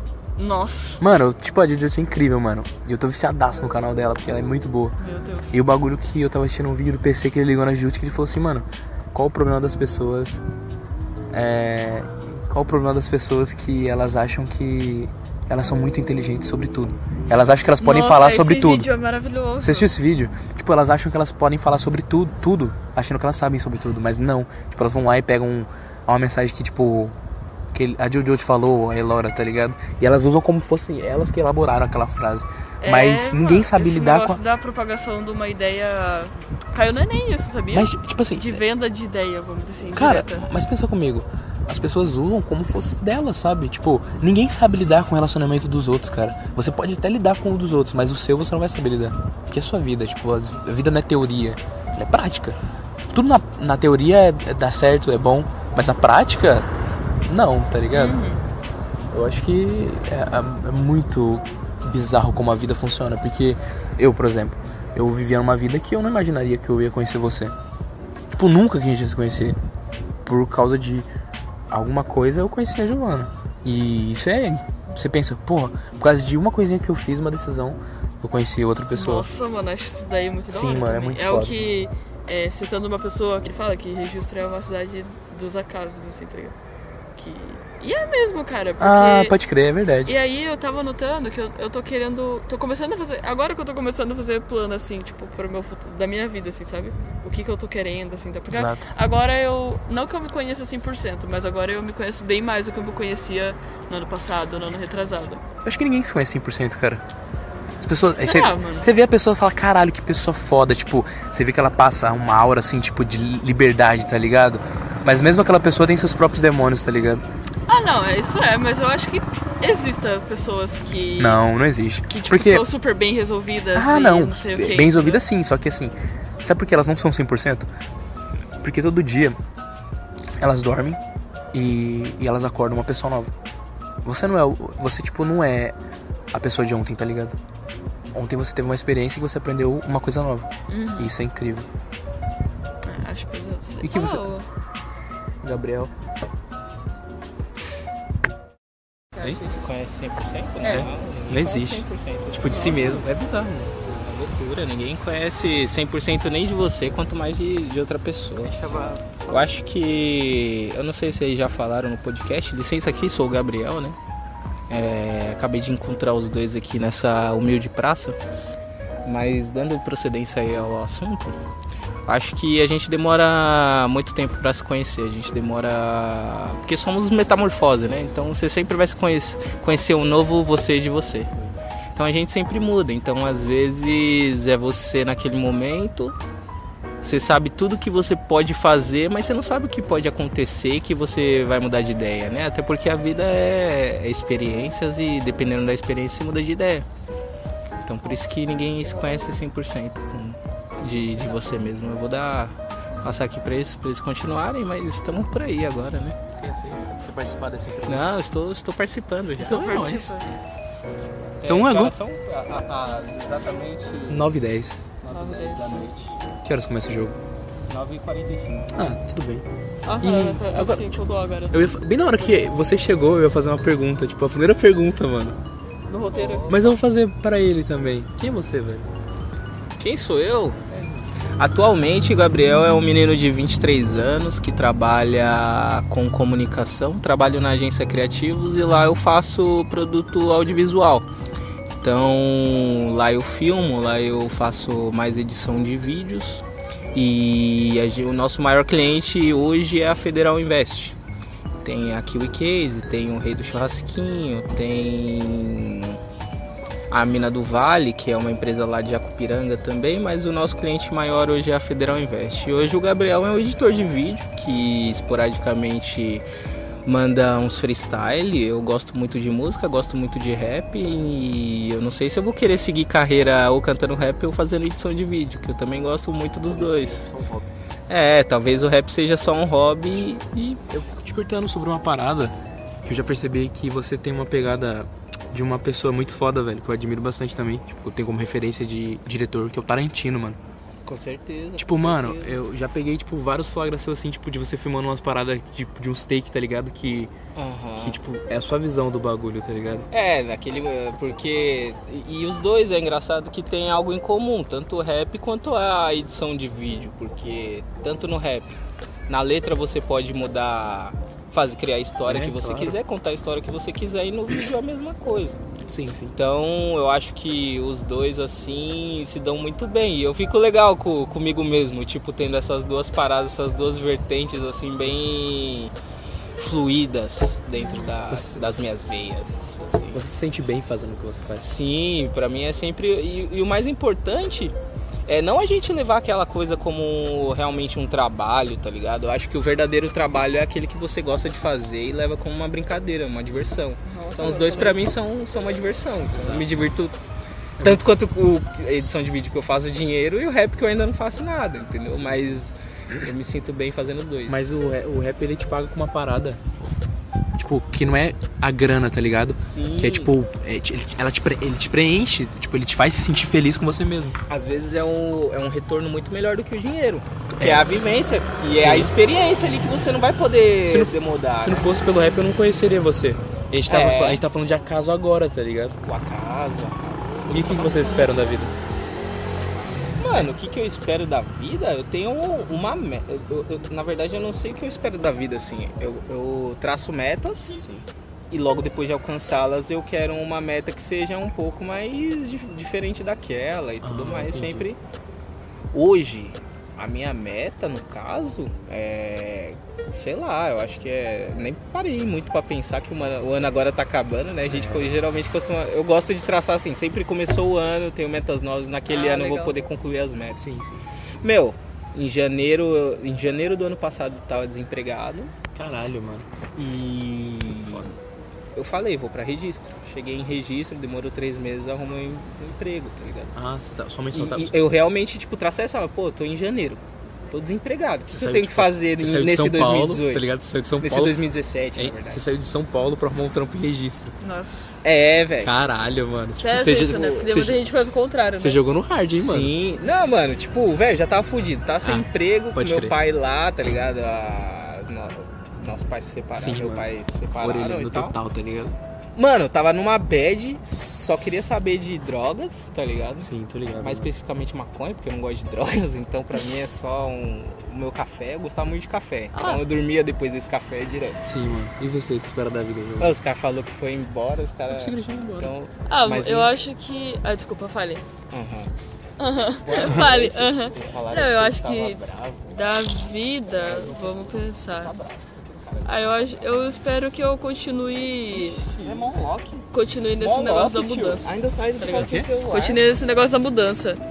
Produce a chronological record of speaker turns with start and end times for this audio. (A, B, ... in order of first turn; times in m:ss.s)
0:00.4-0:01.0 A
0:01.0-0:05.0 B
0:05.0-0:05.5 A
0:05.5-0:10.4 B
0:11.3-0:18.9 B
0:17.8-0:19.9 A
0:19.6-0:27.2 B
0:27.7-0:34.4 B
0:32.8-0:40.5 A
0:37.7-0:38.6 B
0:40.0-0:52.6 B
0:53.1-0:56.7 B
0:57.3-0:58.2 B
0:57.9-0:58.4 A
0:59.1-1:07.6 B
1:08.4-1:09.6 B
1:10.2-1:11.1 B
1:11.7-1:19.3 B
1:18.9-1:26.6 A
1:20.5-1:21.6 B
1:27.2-1:29.4 A
1:28.8-1:30.1 B
1:30.0-1:45.4 A
1:38.5-1:38.9 B
1:45.6-1:47.0 B
1:47.8-1:57.2 B
1:48.1-1:48.9 A
1:57.7-2:01.4 A
2:01.2-2:02.6 B
2:02.1-2:05.2 A
2:03.7-2:07.7 B
2:08.6-2:09.4 B
2:10.4-2:11.0 B
2:11.5-2:13.3 B
2:14.0-2:15.8 B
2:16.3-2:17.4 B
2:18.1-2:20.5 B
2:20.7-2:21.1 A
2:21.0-2:21.7 B
2:22.8-2:24.5 A
2:23.8-2:24.2 B
2:25.4-2:25.9 B
2:29.2-2:29.7 A
2:29.4-2:33.1 C
2:30.6-2:30.9 A
2:30.6-2:33.8 B
2:33.8-2:38.6 C
2:38.4-2:39.5 B
2:39.3-2:44.0 C
2:44.7-2:48.2 C
2:49.0-2:51.4 C
2:52.1-3:01.3 C
3:02.0-3:06.2 C
3:07.0-3:16.9 C
3:17.8-3:26.2 C
3:26.4-3:28.2 B
3:27.9-3:29.8 C
3:29.4-3:30.3 A
3:29.4-3:30.1 B
3:31.4-3:34.3 C
3:31.5-3:32.0 B
3:34.1-3:34.8 B
3:35.0-3:36.2 C
3:35.1-3:35.9 A
3:36.4-3:37.2 B
3:37.7-3:38.7 C
3:38.7-3:39.5 B
3:39.8-3:41.7 A
3:40.0-3:41.0 B
3:41.5-3:45.4 B
3:45.9-3:46.6 A
3:46.1-3:46.8 C
3:46.5-3:48.9 B
3:49.8-3:50.6 C
3:51.4-4:01.1 C
4:01.8-4:11.0 C
4:11.6-4:16.0 C
4:16.9-4:26.2 C
4:26.8-4:37.1 C
4:36.5-4:37.4 B
4:37.9-4:40.4 C
4:40.4-4:50.4 B
4:50.8-4:52.4 C
4:51.6-4:57.1 B
4:57.4-4:58.0 C
4:57.8-4:59.9 B
4:59.9-5:08.5 C
5:09.1-5:15.4 C
5:12.1-5:12.8 B
5:15.7-5:16.1 B
5:16.2-5:25.7 C
5:26.4-5:30.0 C
5:27.6-5:27.9 A
5:28.1-5:28.7 B
5:29.9-5:31.5 B
5:31.4-5:34.6 C
5:35.1-5:47.0 C
5:43.8-5:44.9 A
5:46.1-5:46.5 B
5:47.6-5:54.6 C
5:51.9-5:53.1 B
5:54.3-5:56.4 B
5:57.4-6:04.2 B
5:59.4-6:00.1 C
6:04.3-6:11.7 C
6:07.4-6:07.8 B
6:08.5-6:08.9 B
6:10.7-6:15.8 B
6:13.7-6:14.2 C
6:15.8-6:18.1 C
6:17.3-6:18.5 B
6:20.0-6:27.6 C
6:28.3-6:34.8 C
6:33.8-6:34.7 B
6:35.7-6:50.5 C
6:44.5-6:44.9 B
6:48.9-6:49.6 A
6:50.4-6:50.8 B
6:51.2-6:55.3 C
6:55.6-6:56.3 B
6:56.6-6:57.9 C
6:57.7-6:57.9 B
6:58.6-7:03.3 C
7:03.3-7:04.6 B
7:04.1-7:12.2 C
7:08.1-7:11.2 B
7:11.8-7:14.2 B
7:14.2-7:14.7 A
7:14.8-7:15.5 C
7:15.4-7:17.6 B
7:16.4-7:18.6 A
7:16.8-7:17.4 C
7:18.4-7:19.5 B
7:19.1-7:28.2 C
7:21.8-7:23.0 B
7:26.3-7:26.9 B
7:27.4-7:28.8 B
7:29.2-7:41.3 C
7:33.2-7:34.1 B
7:39.3-7:39.6 A
7:41.2-7:43.2 B
7:43.0-7:46.5 C
7:44.7-7:45.5 B
7:45.9-7:48.0 A
7:48.3-7:48.7 C
7:49.2-7:54.9 A
7:49.6-7:52.6 C
7:53.6-7:56.3 C
7:55.8-7:58.6 A
7:58.3-8:02.8 C
7:59.7-8:04.0 A
8:01.9-8:02.3 B